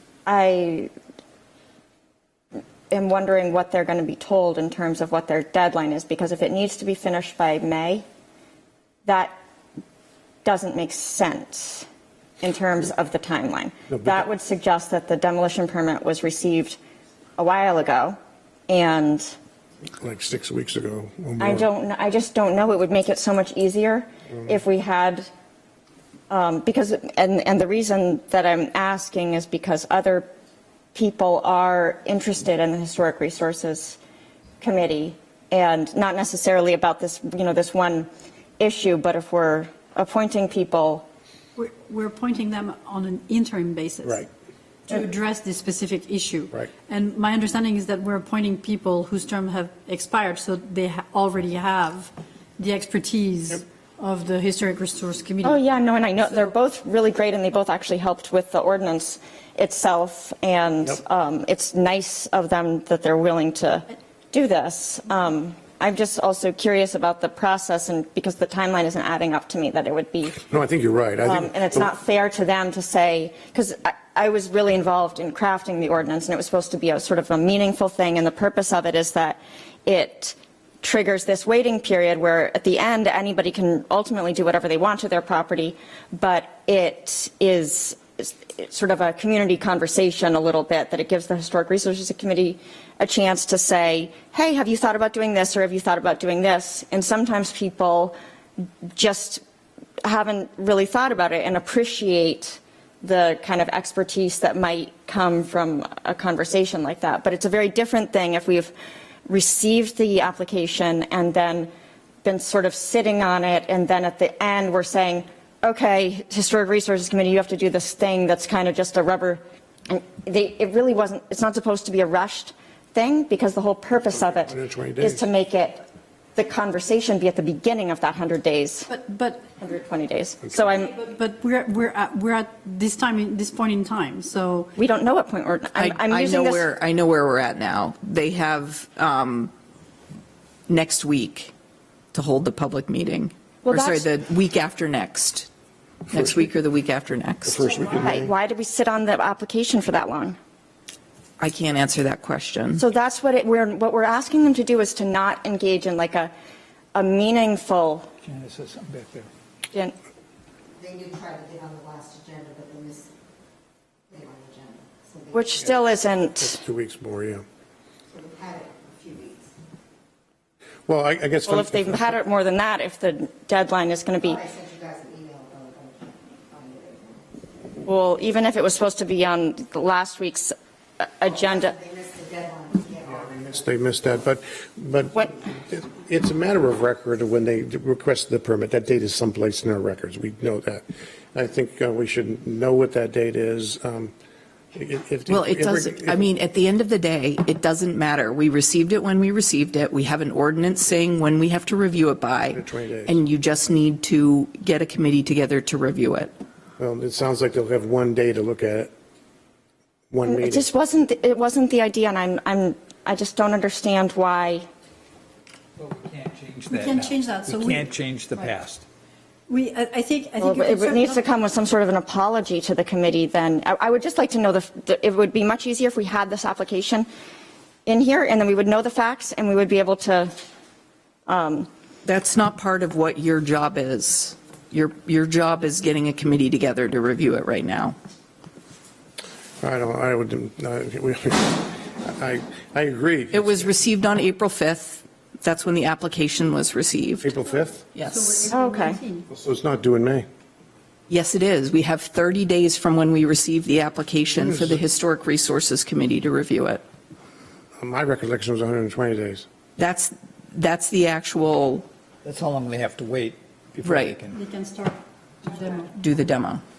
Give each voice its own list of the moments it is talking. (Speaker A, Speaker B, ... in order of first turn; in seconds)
Speaker A: 0.2-0.9, 2.9-8.0, 9.0-9.3, 10.4-11.9, 12.4-16.8, 17.4-18.2, 18.7-19.3, 21.4-25.3, 26.3-30.3, 30.9-34.0, 34.6-38.1, 38.6-41.0, 55.4-70.4, 71.2-98.2, 98.9-99.4, 100.0-108.7, 109.3-111.7, 112.2-125.8, 126.3-128.9, 129.6-130.9, 134.8-136.7, 143.6-144.1, 147.8-150.3, 152.8-156.3, 156.9-158.1, 165.3-166.6, 171.5-174.4, 177.8-181.8, 210.2-214.7, 220.4-227.1, 227.8-230.3, 231.3-231.7, 248.5-249.0
Speaker B: 13.9-14.2, 20.0-21.6, 70.5-71.9, 124.3-125.2, 147.4-148.3, 166.4-167.4, 170.9-172.1, 183.1-194.1, 194.7-196.2, 202.5-203.2, 206.8-208.9, 210.1-210.7, 239.6-243.7, 247.2-247.8, 249.3-250.2, 254.4-254.8, 257.8-259.4
Speaker C: 41.5-44.2, 44.9-55.6, 128.9-129.4, 130.8-134.7, 216.7-217.8, 219.5-221.3, 248.1-249.3, 264.3-265.9
Speaker D: 135.8-139.5, 140.7-141.5, 142.1-145.5, 146.1-147.7, 151.4-152.8, 195.3-206.3, 232.1-237.9, 243.3-247.3, 247.9-248.5, 251.1-256.8, 259.8-261.9, 263.8-264.2, 265.9-266.6
Speaker E: 158.2-159.3, 215.8-218.9, 262.2-264.4
Speaker F: 160.8-163.1, 164.1-165.3, 168.1-169.5, 174.4-177.2, 181.7-183.2